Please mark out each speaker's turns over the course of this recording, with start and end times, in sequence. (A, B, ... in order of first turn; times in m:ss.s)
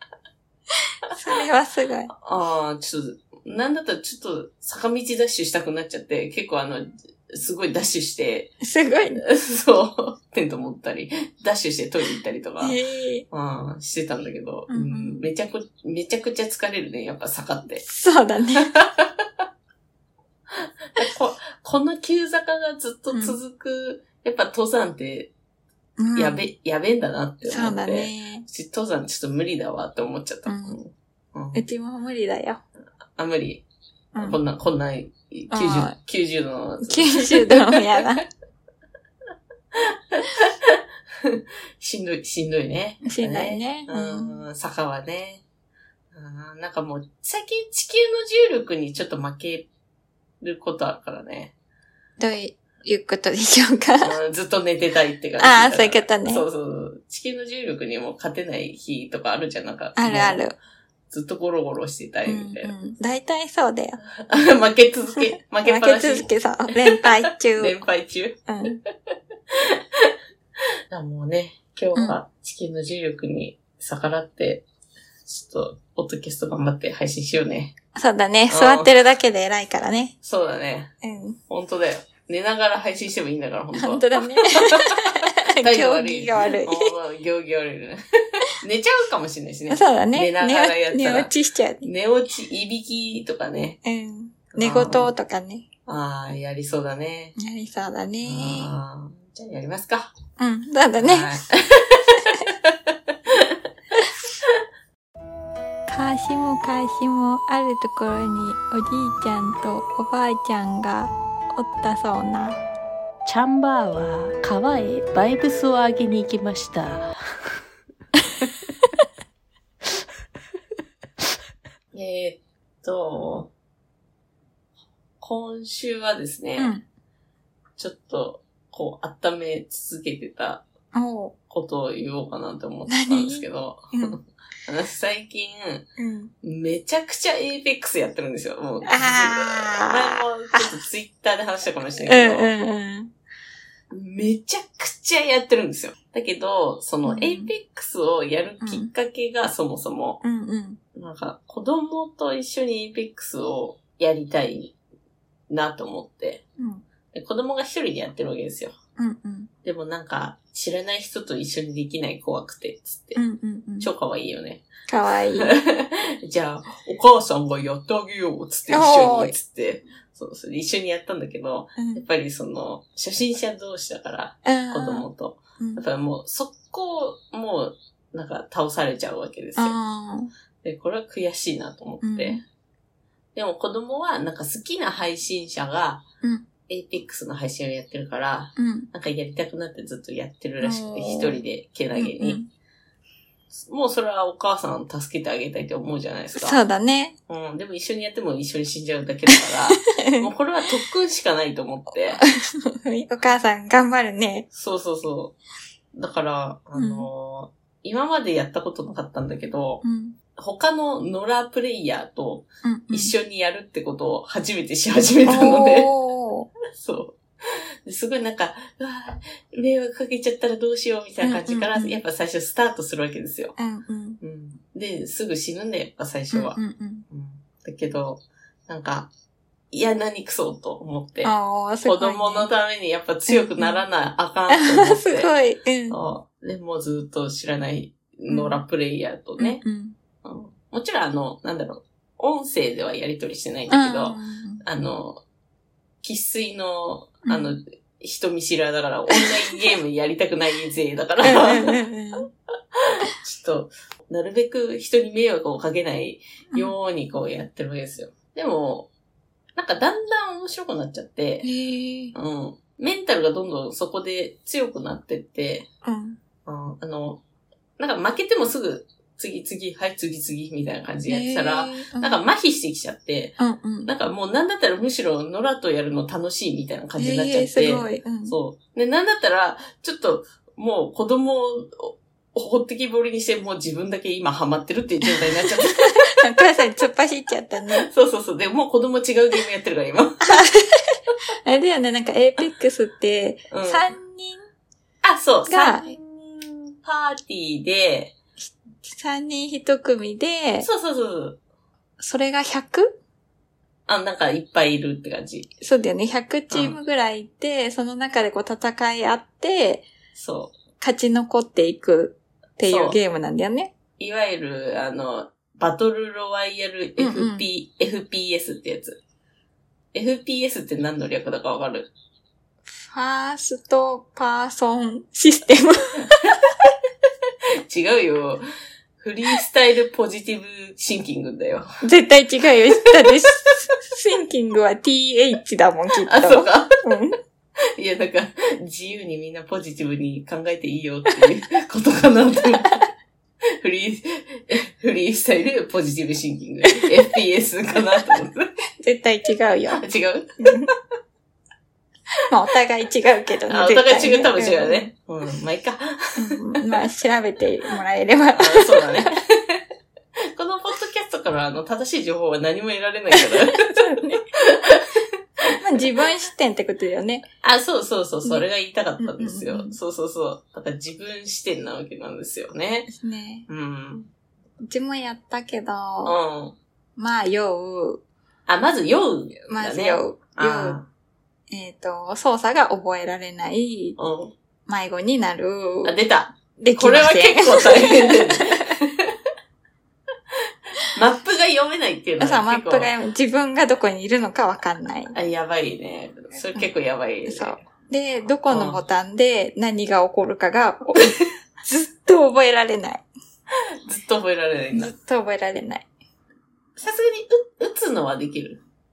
0:01.1-0:02.1 A
0:02.1-0:08.5 B
0:08.6-0:09.2 A
0:09.2-0:12.8 B
0:12.6-0:13.2 A
0:13.3-0:17.8 B
0:14.7-0:15.2 A
0:17.8-0:18.7 A
0:18.6-0:19.3 B
0:20.6-0:25.3 B
0:26.0-0:26.4 A
0:26.1-0:31.6 B
0:27.5-0:28.4 A
0:30.4-0:30.8 A
0:31.5-0:32.6 A
0:33.2-0:33.6 B
0:34.2-0:38.1 B
0:35.5-0:36.0 A
0:36.8-0:38.2 A
0:39.7-0:45.4 B
0:43.0-0:44.4 A
0:46.1-0:49.7 B
0:50.4-0:51.5 B
0:52.2-0:54.2 A
0:54.0-1:00.4 B
0:55.4-0:56.4 A
1:00.0-1:00.6 A
1:01.1-1:02.7 B
1:02.2-1:04.0 A
1:04.0-1:08.8 B
1:05.2-1:07.8 A
1:08.5-1:08.8 A
1:09.5-1:10.1 B
1:10.9-1:14.6 B
1:15.2-1:17.7 B
1:17.9-1:20.1 A
1:18.5-1:18.9 B
1:20.2-1:20.9 B
1:21.0-1:21.4 A
1:21.5-1:33.8 B
1:23.8-1:26.9 A
1:29.7-1:31.9 A
1:33.8-1:35.7 A
1:34.5-1:35.1 B
1:35.9-1:37.3 B
1:37.4-1:38.7 A
1:38.2-1:40.1 B
1:40.4-1:41.4 A
1:41.0-1:43.6 B
1:42.1-1:42.4 A
1:45.9-1:52.6 A
1:53.2-1:57.1 C
2:01.9-2:03.5 B
2:05.2-2:06.8 B
2:06.6-2:06.8 A
2:07.8-2:10.7 B
2:10.9-2:11.3 A
2:11.5-2:15.9 B
2:12.9-2:14.2 A
2:16.0-2:16.3 A
2:16.4-2:22.5 B
2:18.9-2:20.6 A
2:22.0-2:23.1 A
2:23.9-2:30.2 B
2:27.0-2:27.5 A
2:28.6-2:28.9 A
2:30.2-2:30.8 A
2:30.9-2:34.8 B
2:35.5-2:36.4 B
2:36.6-2:36.8 A
2:37.1-2:38.8 B
2:39.0-2:39.5 A
2:39.6-2:43.2 B
2:43.2-2:43.9 A
2:43.8-2:44.7 B
2:44.9-2:45.5 A
2:45.4-2:59.8 B
2:48.7-2:49.4 A
2:51.8-2:52.0 A
2:54.4-2:55.1 A
2:55.6-2:55.8 A
2:59.6-3:00.3 A
3:00.6-3:02.4 B
3:02.0-3:02.4 A
3:03.3-3:06.0 B
3:06.2-3:06.5 A
3:06.7-3:12.4 B
3:08.6-3:08.9 A
3:10.6-3:11.4 A
3:12.0-3:12.5 A
3:13.5-3:16.6 B
3:16.3-3:17.2 A
3:17.3-3:22.2 B
3:19.3-3:20.3 A
3:22.2-3:24.5 A
3:24.5-3:25.3 B
3:25.9-3:29.8 B
3:26.8-3:27.1 A
3:29.8-3:30.2 A
3:30.4-3:35.9 B
3:32.6-3:33.1 A
3:35.2-3:36.5 A
3:36.7-3:43.6 B
3:41.2-3:42.0 A
3:43.6-3:44.2 A
3:44.2-3:49.1 B
3:46.3-3:47.0 A
3:49.7-3:51.3 B
3:51.2-3:52.5 A
3:51.8-3:55.3 B
3:53.3-3:53.8 A
3:54.5-3:56.0 A
3:55.9-3:59.6 B
3:58.3-3:58.6 A
3:59.4-4:00.0 A
4:00.2-4:05.2 B
4:03.7-4:04.6 A
4:06.0-4:11.8 B
4:07.2-4:07.5 A
4:11.2-4:12.3 A
4:12.8-4:18.9 B
4:19.6-4:21.5 B
4:21.4-4:22.1 A
4:22.1-4:25.7 B
4:25.8-4:26.2 A
4:26.4-4:27.2 B
4:27.8-4:46.2 B
4:31.1-4:32.2 A
4:33.4-4:33.9 A
4:37.0-4:38.3 A
4:45.1-4:47.9 A
4:47.8-4:50.4 B
4:50.2-4:54.4 A
4:53.5-4:53.9 B
4:55.0-4:58.2 B
4:55.5-4:55.9 A
4:58.4-5:00.7 A
5:00.6-5:01.4 B
5:02.0-5:03.0 A
5:03.9-5:05.5 B
5:05.6-5:09.9 A
5:06.5-5:06.8 B
5:10.1-5:10.5 B
5:10.8-5:13.7 A
5:12.7-5:13.0 B
5:14.0-5:19.0 B
5:17.0-5:17.4 A
5:19.9-5:21.9 B
5:22.8-5:26.4 A
5:27.7-5:28.4 B
5:29.0-5:31.7 B
5:31.8-5:37.2 A
5:32.8-5:33.3 B
5:36.0-5:36.8 B
5:37.8-5:42.8 B
5:43.6-5:48.5 B
5:48.8-5:49.8 A
5:49.8-5:50.7 B
5:50.4-5:50.7 A
5:52.3-5:54.9 A
5:53.5-5:56.8 B
5:56.2-5:59.0 A
5:58.4-5:59.6 B
6:00.3-6:05.1 B
6:03.1-6:04.2 A
6:05.6-6:07.2 A
6:07.4-6:12.9 B
6:09.0-6:09.8 A
6:12.9-6:13.5 A
6:13.5-6:14.1 B
6:14.6-6:16.2 A
6:16.0-6:16.6 B
6:17.0-6:18.0 A
6:18.5-6:20.9 B
6:19.5-6:20.8 A
6:21.5-6:24.0 A
6:24.0-6:24.3 B
6:24.7-6:25.9 A
6:25.8-6:29.2 B
6:26.6-6:28.8 A
6:30.8-6:32.9 B
6:32.2-6:35.1 A
6:35.1-6:37.6 B
6:37.2-6:43.0 A
6:38.5-6:38.8 B
6:43.8-6:44.9 B
6:44.7-6:45.9 A
6:46.8-6:48.6 B